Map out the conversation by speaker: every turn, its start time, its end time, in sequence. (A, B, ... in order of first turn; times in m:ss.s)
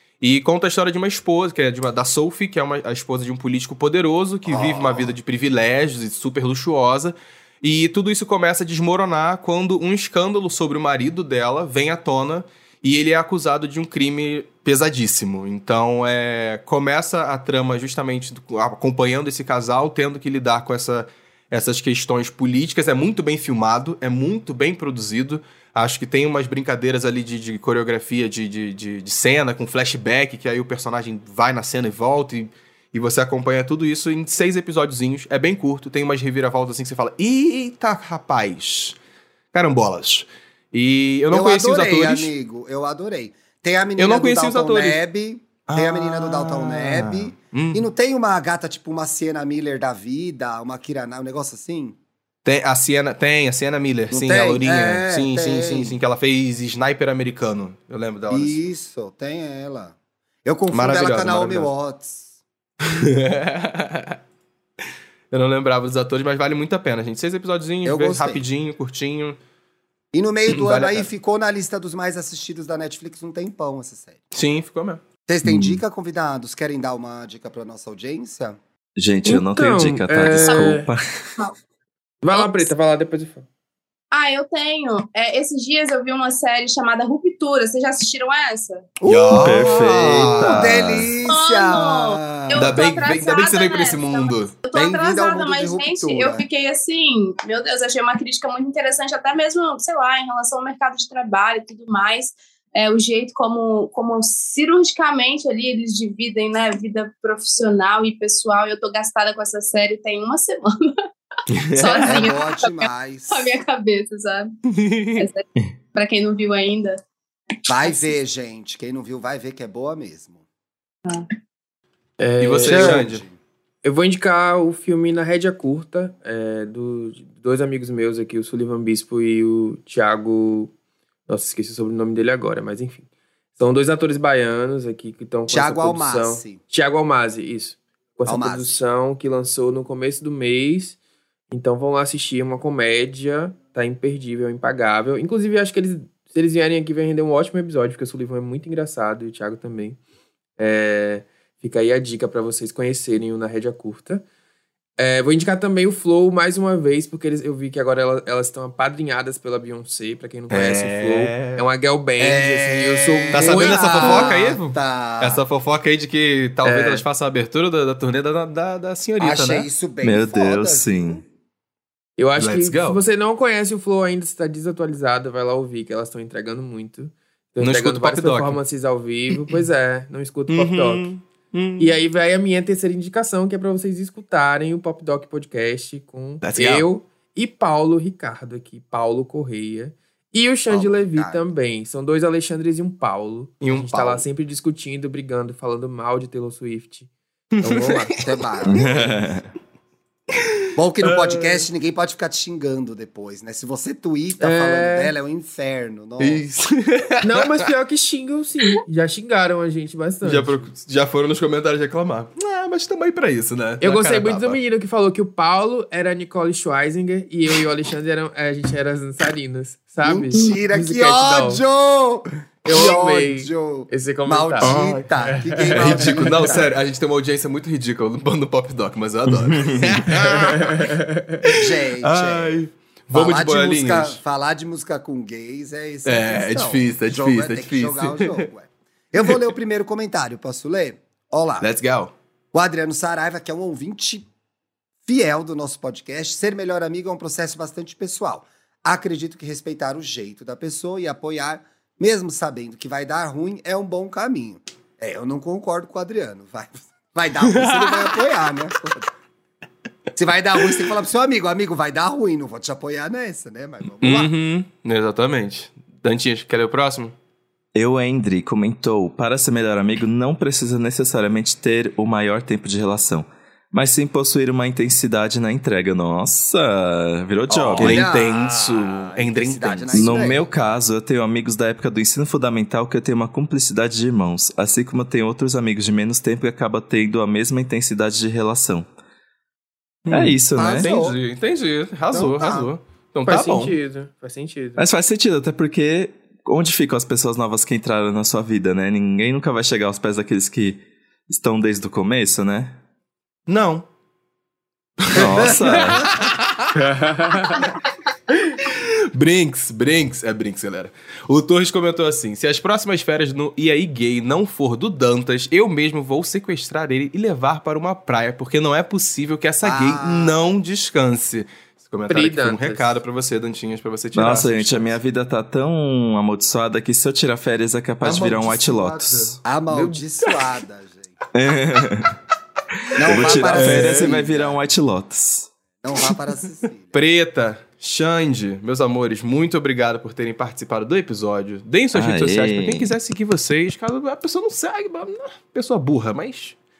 0:00.2-0:39.0 A
0:04.5-0:05.2 B
0:39.5-0:42.3 A
0:41.3-0:52.0 B
0:44.0-0:45.0 A
0:45.7-0:47.8 A
0:52.4-0:58.6 A
0:54.1-0:55.9 B
0:58.3-1:02.3 B
1:00.7-1:01.7 A
1:02.8-1:04.2 A
1:05.3-1:09.4 A
1:07.8-1:08.4 B
1:10.1-1:14.2 B
1:10.5-1:11.1 A
1:14.3-1:15.8 A
1:15.3-1:18.6 B
1:19.0-1:21.3 C
1:19.2-1:20.9 D
1:20.4-1:20.8 E
1:22.2-1:23.4 D
1:22.3-1:22.7 E
1:24.1-1:28.9 E
1:29.0-1:32.8 B
1:29.0-1:30.8 A
1:29.3-1:31.1 C
1:31.2-1:51.0 E
1:32.5-1:34.5 A
1:34.7-1:36.4 B
1:51.5-1:52.3 A
1:51.7-1:54.6 E
1:52.0-1:53.6 B
1:54.7-1:55.3 A
1:55.2-1:57.0 E
1:57.6-2:00.4 B
1:57.7-1:58.1 E
2:02.2-2:03.0 D
2:02.4-2:03.2 A
2:02.6-2:03.4 B
2:03.8-2:10.7 D
2:11.3-2:21.0 D
2:15.5-2:16.6 B
2:18.2-2:18.8 B
2:21.5-2:30.0 D
2:30.6-2:34.2 D
2:35.0-2:44.4 D
2:40.5-2:41.6 A
2:42.2-2:45.4 B
2:43.3-2:49.7 A
2:46.6-2:47.0 D
2:49.2-2:51.2 B
2:50.0-2:51.2 C
2:52.2-3:01.1 D
2:52.4-2:53.0 A
2:57.6-2:58.6 A
3:00.5-3:02.0 A
3:01.8-3:17.1 D
3:06.4-3:06.9 A
3:10.7-3:11.4 B
3:13.6-3:14.2 A
3:17.5-3:18.3 A
3:17.6-3:18.2 D
3:18.2-3:19.2 B
3:18.7-3:19.5 C
3:20.8-3:26.4 B
3:21.1-3:21.4 A
3:24.4-3:25.1 D
3:26.2-3:27.6 A
3:27.2-3:30.7 D
3:30.2-3:34.6 A
3:33.8-3:41.6 D
3:40.0-3:46.7 B
3:42.6-3:46.3 D
3:44.6-3:45.0 A
3:45.7-3:54.2 A
3:49.5-3:50.1 C
3:50.5-3:51.5 D
3:51.6-3:52.6 B
3:53.1-4:01.7 B
3:56.0-3:58.5 A
4:01.6-4:02.1 A
4:02.5-4:04.3 B
4:05.0-4:19.1 B
4:17.4-4:18.2 A
4:20.2-4:24.3 B
4:24.0-4:27.1 A
4:27.7-4:38.0 C
4:37.5-4:40.3 A
4:37.8-4:40.5 B
4:39.9-4:48.9 C
4:50.0-4:53.8 A
4:50.1-4:50.9 C
4:50.5-4:51.2 B
4:52.1-4:52.7 B
4:53.2-4:54.9 D
4:54.8-5:02.8 C
5:03.5-5:03.8 A
5:05.0-5:06.7 A
5:05.1-5:06.1 C
5:06.8-5:07.6 D
5:08.5-5:25.0 A
5:19.6-5:20.5 B
5:22.1-5:22.9 D
5:24.1-5:29.4 C
5:28.0-5:29.4 A
5:29.4-5:31.2 B
5:29.7-5:30.0 D
5:31.3-5:32.2 C
5:33.0-5:34.6 B
5:33.0-5:35.5 C
5:33.1-5:34.2 A
5:35.8-5:36.9 B
5:36.9-5:46.6 A
5:41.9-5:43.0 C